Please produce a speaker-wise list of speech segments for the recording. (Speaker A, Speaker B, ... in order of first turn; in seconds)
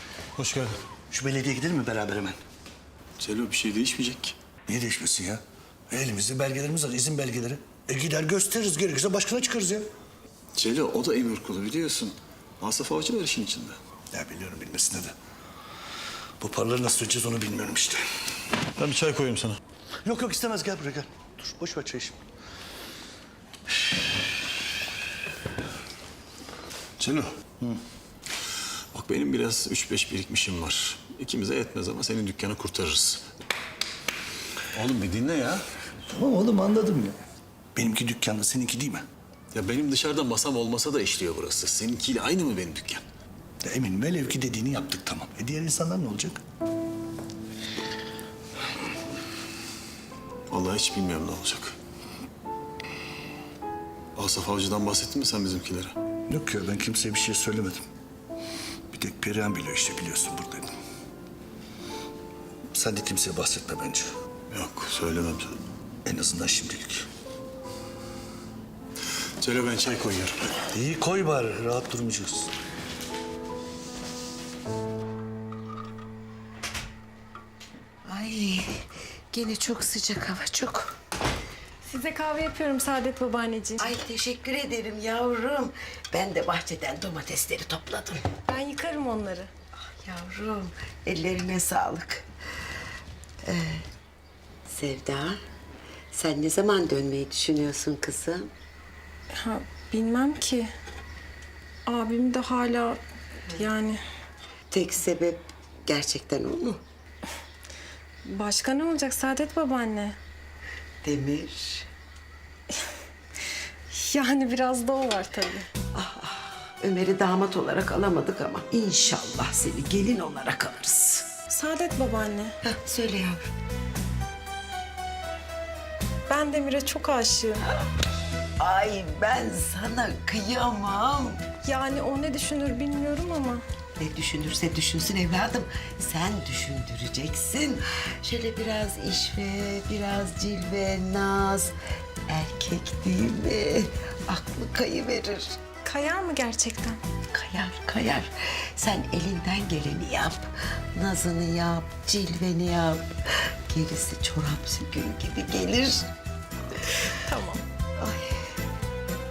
Speaker A: 1.1-2.4, 4.7-9.9, 14.1-15.1, 16.4-18.0, 20.0-22.2, 27.1-27.8, 36.1-37.2, 37.7-39.0, 43.6-46.4, 56.3-57.8, 58.9-60.7, 62.7-64.1, 66.0-67.0, 70.7-72.5
Speaker B: 3.2-4.3, 10.5-13.8, 18.8-19.6, 28.9-33.2, 34.7-35.6, 39.5-43.0, 50.5-51.7, 54.1-55.9, 64.5-65.5, 69.4-70.6
Speaker C: 78.0-78.7, 79.3-80.9, 83.8-88.2, 89.9-92.2, 93.5-93.8, 94.7-95.4, 96.1-98.5, 104.7-106.8, 111.0-111.9, 116.0-121.2, 122.6-123.5, 128.6-131.4, 134.0-141.7, 142.3-145.5, 147.3-153.1, 153.7-156.1, 158.0-158.3
Speaker D: 81.9-83.8, 88.5-89.5, 99.4-100.7, 101.9-103.0, 103.6-104.0, 108.3-110.1, 114.0-115.6, 121.5-122.5, 126.3-127.5, 131.7-133.6, 145.9-147.0, 157.3-157.6